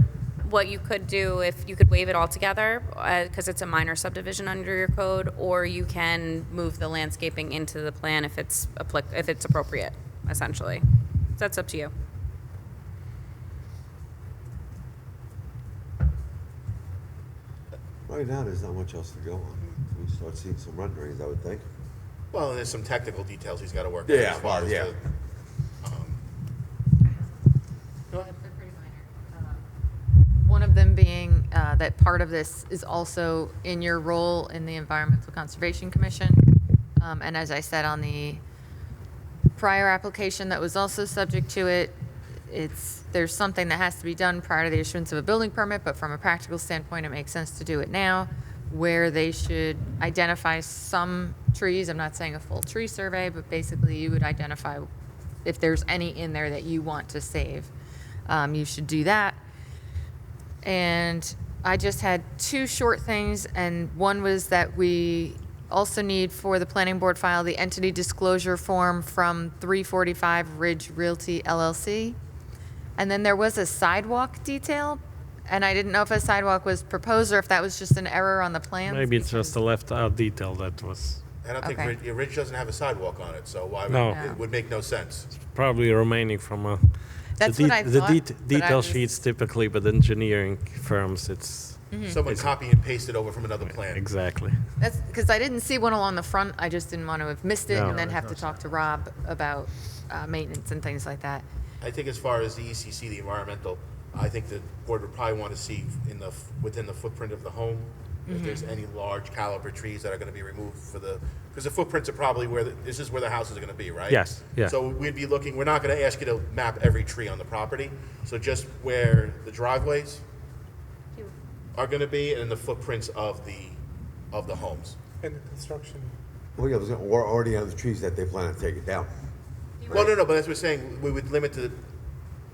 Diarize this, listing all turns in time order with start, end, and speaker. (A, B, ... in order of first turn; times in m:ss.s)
0:00.4-0:10.8 A
0:11.4-0:11.9 A
0:18.1-0:21.6 B
0:22.3-0:25.0 C
0:24.0-0:24.9 B
0:25.8-0:26.2 C
0:28.1-0:29.6 D
0:30.3-0:38.4 D
0:39.6-0:41.9 D
0:42.5-0:54.9 D
0:55.4-0:57.7 D
0:58.3-0:59.4 D
1:00.6-1:12.2 D
1:13.0-1:19.6 D
1:18.8-1:21.2 E
1:21.4-1:25.3 C
1:21.6-1:22.0 D
1:23.9-1:24.4 E
1:24.1-1:24.4 D
1:25.3-1:26.9 E
1:27.4-1:29.0 D
1:27.4-1:32.5 E
1:31.9-1:32.2 D
1:32.0-1:34.0 C
1:33.7-1:34.6 E
1:34.8-1:41.4 D
1:37.7-1:38.0 E
1:37.8-1:38.8 F
1:41.8-2:00.2 C
1:48.3-1:48.7 D
1:54.1-1:54.7 E
2:01.7-2:03.8 C
2:04.3-2:05.0 C
2:05.2-2:06.1 F
2:06.6-2:09.1 B
2:09.9-2:11.8 C